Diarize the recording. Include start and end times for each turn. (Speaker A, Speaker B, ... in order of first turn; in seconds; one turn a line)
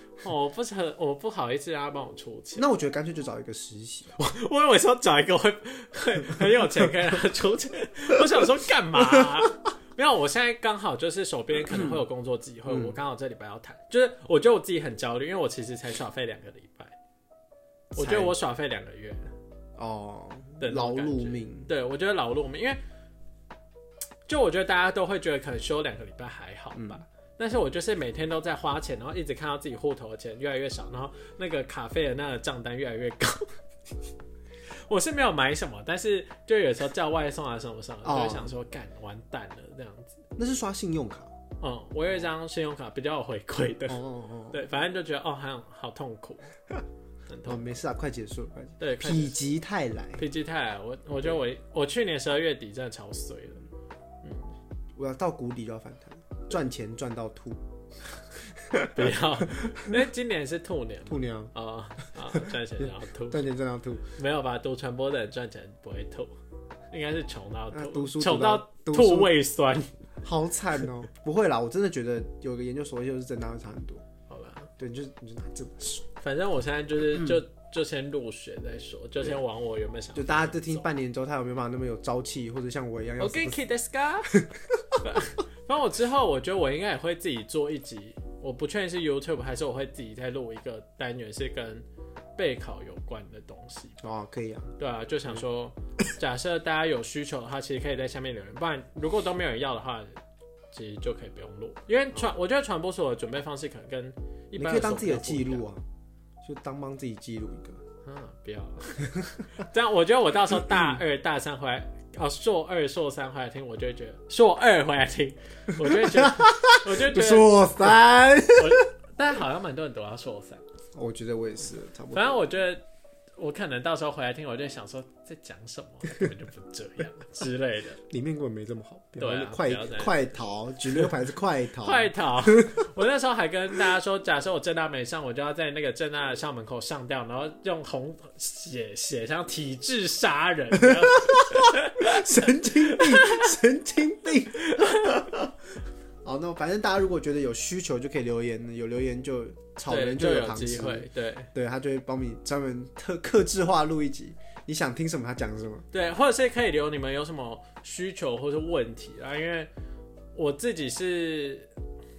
Speaker A: 0.2-2.7
Speaker B: 2.6-4.2
Speaker A: 4.2-16.9
Speaker B: 9.0-9.5
Speaker B: 11.7-12.0
Speaker B: 12.7-13.0
Speaker B: 17.9-18.3
Speaker A: 18.0-19.3
Speaker B: 19.8-21.7
Speaker A: 20.6-22.8
Speaker A: 24.3-33.5
Speaker B: 26.7-27.0
Speaker A: 34.9-40.2
Speaker B: 38.0-38.5
Speaker B: 40.4-41.3
Speaker A: 41.6-46.5
Speaker B: 43.9-44.6
Speaker A: 47.3-47.6
Speaker B: 47.5-50.2
Speaker A: 48.8-49.4
Speaker A: 50.2-53.6
Speaker A: 54.2-54.5
Speaker B: 55.0-57.6
Speaker B: 58.6-60.0
Speaker A: 58.8-63.4
Speaker B: 61.1-61.5
Speaker B: 62.3-64.1
Speaker A: 64.2-66.3
Speaker A: 66.9-69.9
Speaker B: 67.7-69.3
Speaker B: 70.2-74.0
Speaker A: 74.3-74.7
Speaker B: 74.8-76.1
Speaker A: 76.2-80.9
Speaker B: 77.1-77.4
Speaker B: 80.2-83.6
Speaker A: 83.2-84.5
Speaker B: 84.3-85.0
Speaker A: 85.0-91.9
Speaker A: 92.4-94.0
Speaker B: 94.0-94.7
Speaker A: 94.8-100.2
Speaker A: 100.7-105.7
Speaker B: 104.6-105.8
Speaker B: 106.4-107.8
Speaker A: 108.0-118.0
Speaker B: 110.7-111.0
Speaker B: 115.8-118.8
Speaker A: 118.5-120.6
Speaker B: 121.0-122.4
Speaker A: 122.1-122.8
Speaker A: 123.4-128.0
Speaker B: 128.1-132.9
Speaker A: 129.2-130.4
Speaker A: 131.8-143.5
Speaker B: 140.8-145.6
Speaker A: 144.6-145.3
Speaker B: 146.2-155.9
Speaker A: 149.9-151.5
Speaker A: 155.9-159.7
Speaker A: 160.3-161.7